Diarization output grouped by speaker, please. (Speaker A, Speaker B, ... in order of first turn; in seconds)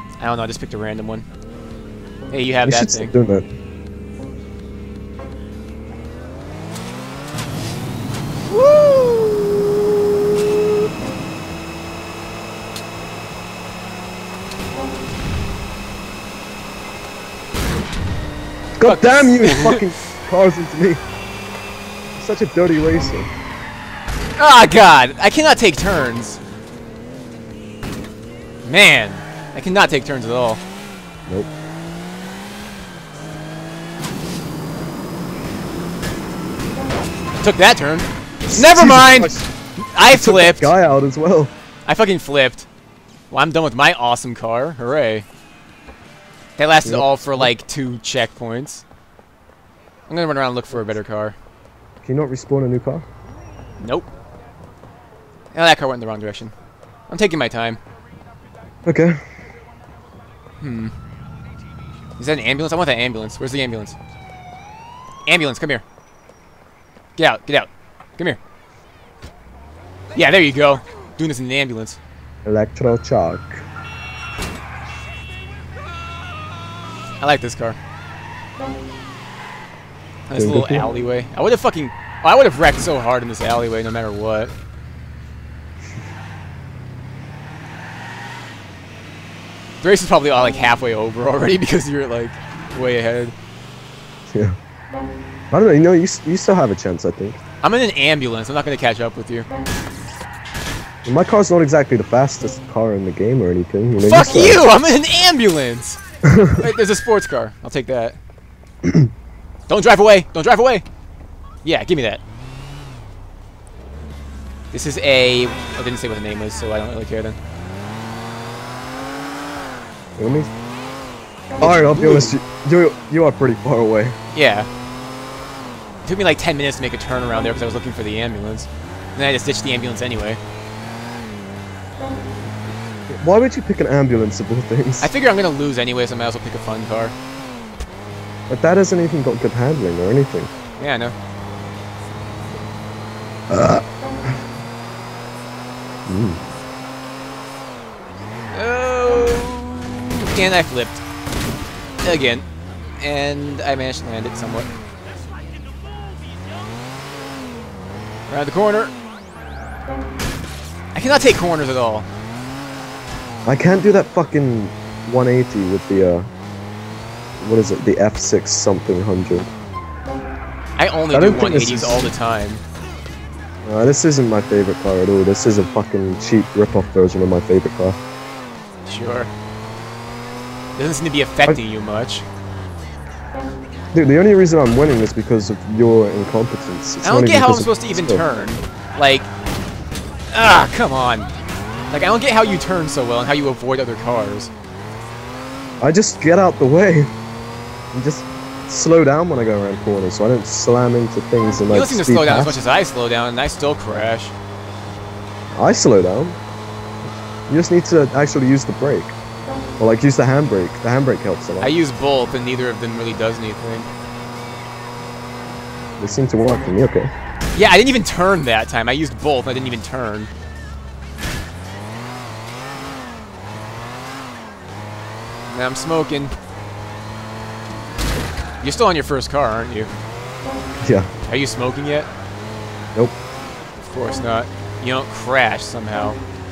Speaker A: 0.2-1.2, 2.3-3.1, 8.5-9.7, 18.8-19.8, 24.4-26.4, 28.6-30.6, 37.4-39.3, 39.9-40.7, 41.9-42.7, 43.3-45.2, 46.6-48.8, 50.1-51.4, 53.8-54.1, 55.5-56.5, 57.1-57.8, 60.6-60.9, 62.2-64.0, 65.3-65.8, 67.2-68.4, 70.2-72.0, 77.2-77.8, 80.3-84.5, 89.8-93.3, 97.6-99.5, 104.0-108.2, 109.7-110.8, 111.6-112.2, 114.7-117.4, 121.6-122.3, 124.3-124.7, 126.0-130.4, 135.0-137.2, 140.8-141.2, 148.5-151.0, 152.0-152.5, 153.0-154.7, 158.3-158.9, 160.9-162.1, 170.8-172.6, 178.9-179.3, 180.8-182.2, 187.0-189.3, 190.3-191.3, 191.9-194.5, 201.7-204.3, 211.6-213.9, 217.6-220.3, 225.5-226.3, 228.6-229.9, 231.3-232.1, 233.8-236.2
Speaker B: 2.6-3.5, 18.8-21.0, 22.1-23.3, 38.5-39.5, 40.0-41.5, 46.8-47.5, 52.0-53.0, 58.9-59.2, 72.5-73.7, 80.3-80.9, 94.3-94.6, 95.5-97.4, 101.0-104.6, 106.3-106.7, 120.2-120.5, 121.6-124.2, 133.1-135.1, 138.5-140.5, 143.5-143.8, 146.1-146.4, 163.5-166.3, 167.4-169.5, 171.1-172.1, 173.7-178.0, 183.9-188.3, 195.8-197.1, 197.9-202.6, 205.6-206.4, 207.5-209.2, 209.8-211.7, 216.0-217.1, 230.8-231.1